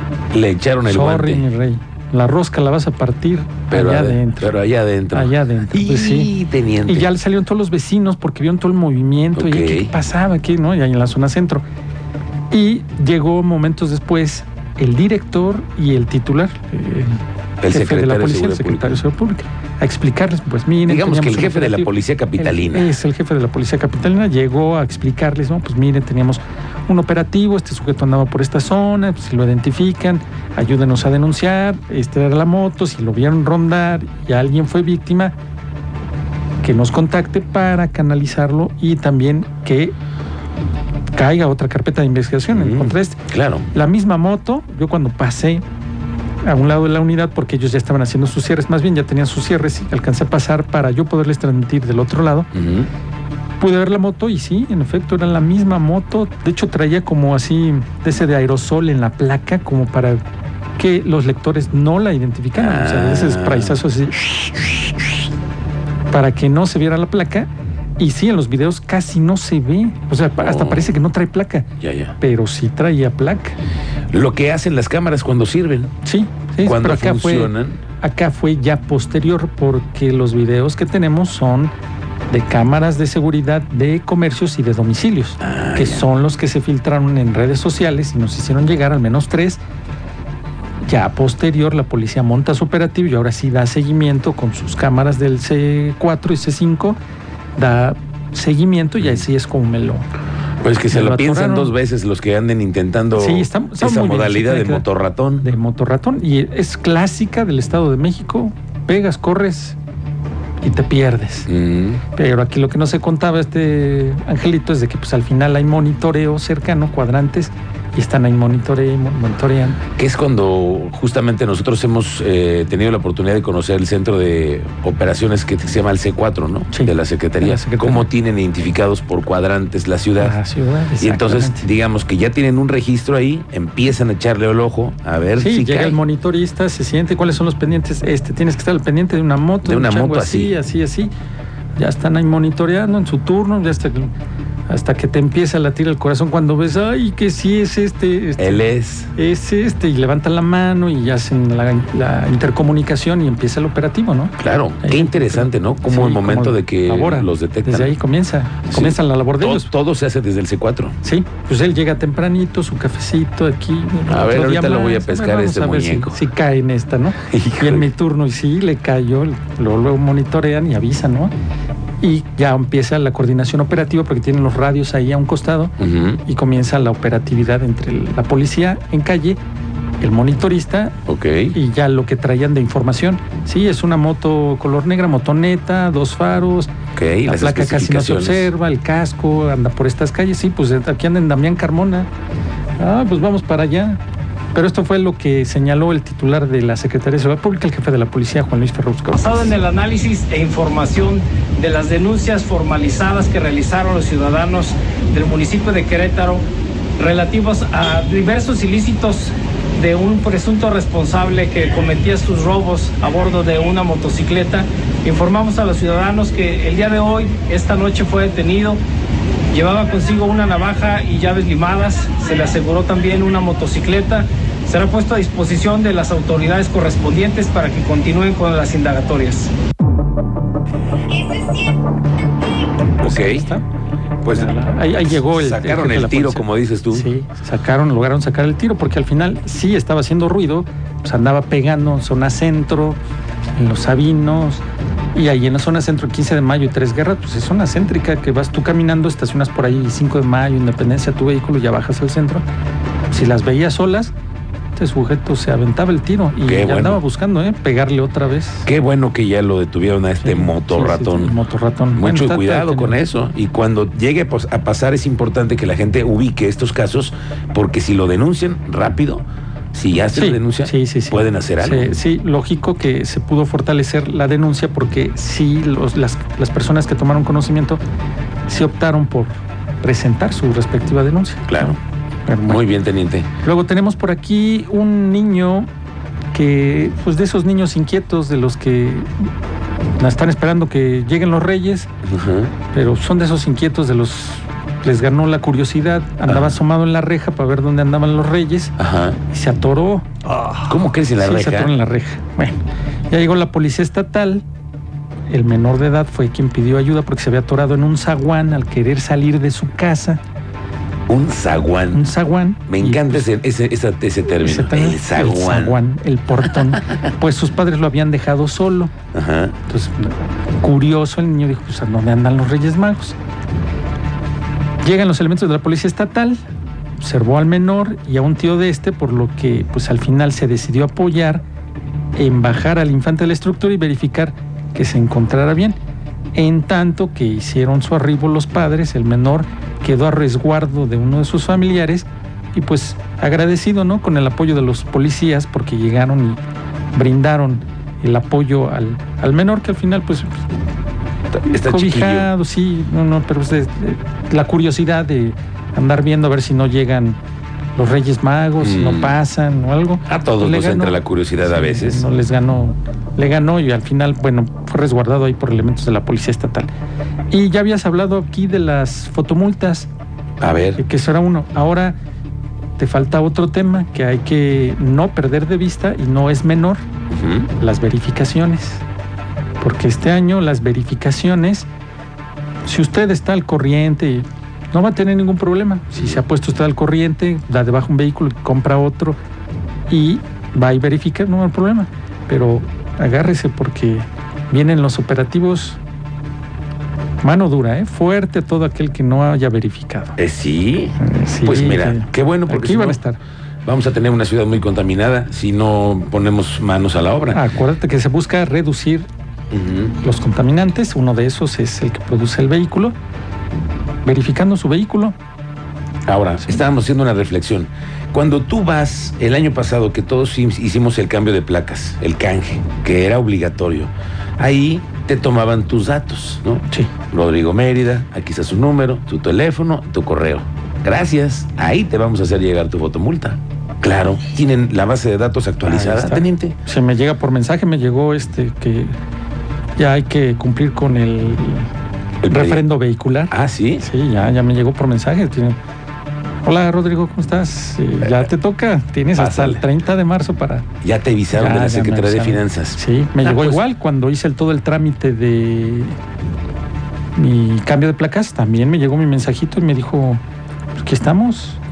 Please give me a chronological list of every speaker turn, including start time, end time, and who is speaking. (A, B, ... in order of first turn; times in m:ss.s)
0:00.3-0:01.5 A
0:00.8-0:04.5 B
0:03.7-0:07.1 A
0:05.1-0:06.3 B
0:06.8-0:11.6 B
0:09.4-0:09.9 A
0:12.5-0:17.2 B
0:17.6-0:19.0 A
0:17.7-0:35.3 B
0:20.9-0:22.9 A
0:36.6-0:40.0 B
0:41.1-0:45.6 B
0:42.5-0:43.7 A
0:46.4-0:52.5 B
0:52.5-0:52.9 A
0:53.6-1:00.2 B
1:00.8-1:05.0 B
1:02.6-1:03.8 A
1:06.1-1:13.6 B
1:10.4-1:11.0 A
1:11.8-1:12.1 A
1:14.1-1:15.9 A
1:16.0-1:21.7 B
1:16.6-1:17.8 A
1:22.3-1:29.6 B
1:25.4-1:26.1 A
1:30.8-1:37.0 B
1:37.6-1:40.0 B
1:40.6-1:45.5 A
1:40.9-1:41.7 B
1:43.1-1:44.8 B
1:45.4-1:49.8 B
1:50.6-1:51.5 B
1:51.5-1:52.0 A
1:52.1-1:59.8 B
2:00.0-2:10.4 A
2:06.7-2:08.1 B
2:10.2-2:11.6 B
2:11.0-2:16.0 A
2:15.4-2:21.1 B
2:19.6-2:20.5 A
2:21.8-2:24.1 B
2:24.7-2:28.6 B
2:28.4-2:29.1 A
2:29.1-2:39.7 B
2:34.4-2:37.9 A
2:38.7-2:41.0 A
2:41.0-2:51.3 B
2:44.1-2:46.2 A
2:47.3-2:47.9 A
2:52.0-2:59.4 B
2:55.8-2:56.2 A
3:00.0-3:00.9 B
3:01.1-3:01.6 A
3:01.5-3:06.7 B
3:06.9-3:08.5 A
3:07.2-3:12.1 B
3:12.8-3:14.0 B
3:14.5-3:19.6 B
3:19.1-3:26.4 C
3:27.0-3:38.8 C
3:39.5-3:49.5 C
3:53.0-3:53.5 A
3:53.0-3:53.6 B
3:54.2-3:57.1 A
3:54.2-4:03.0 B
4:03.6-4:12.4 B
4:13.1-4:14.1 B
4:14.7-4:18.7 B
4:16.4-4:17.0 A
4:18.6-4:21.4 A
4:20.2-4:23.0 B
4:21.9-4:31.9 A
4:30.1-4:37.8 B
4:38.5-4:41.7 B
4:41.5-4:41.8 A
4:42.3-4:42.6 B
4:42.4-4:43.3 A
4:43.4-4:45.7 B
4:46.3-4:49.1 B
4:50.0-4:51.9 B
4:52.0-4:52.5 A
4:52.7-4:58.7 B
4:56.3-4:56.6 A
4:58.8-4:59.2 A
4:59.2-5:00.1 B
5:00.6-5:01.7 A
5:01.2-5:04.4 B
5:05.3-5:10.2 B
5:11.1-5:12.1 A
5:11.9-5:13.3 B
5:12.7-5:15.8 A
5:14.3-5:18.9 B
5:19.1-5:19.6 A
5:19.7-5:23.2 B
5:24.8-5:26.4 B
5:27.0-5:31.4 B
5:32.2-5:35.8 B
5:36.3-5:46.4 B
5:46.9-5:50.4 B
5:51.3-5:52.3 A
5:51.4-5:57.2 B
5:57.7-6:06.7 B
5:58.6-5:59.1 A
6:00.1-6:02.0 A
6:07.3-6:09.9 B
6:10.4-6:10.8 A
6:10.8-6:12.0 B
6:12.8-6:16.8 B
6:17.1-6:17.5 A
6:17.6-6:18.8 B
6:19.6-6:21.7 B
6:22.6-6:29.2 B
6:25.9-6:26.2 A
6:29.9-6:35.8 B
6:37.2-6:40.2 B
6:40.2-6:43.0 A
6:41.0-6:43.2 B
6:43.6-6:47.4 A
6:47.3-6:49.1 B
6:49.5-6:50.0 A
6:50.0-6:52.9 B
6:54.0-6:55.2 B
6:56.0-7:16.5 A
7:15.6-7:18.9 B
7:19.8-7:21.7 B
7:22.2-7:22.6 A
7:22.3-7:25.6 B
7:23.3-7:23.8 A
7:26.4-7:30.6 B
7:29.2-7:29.6 A
7:30.8-7:33.6 A
7:31.3-7:36.0 B
7:37.2-7:40.2 B
7:40.8-7:41.6 B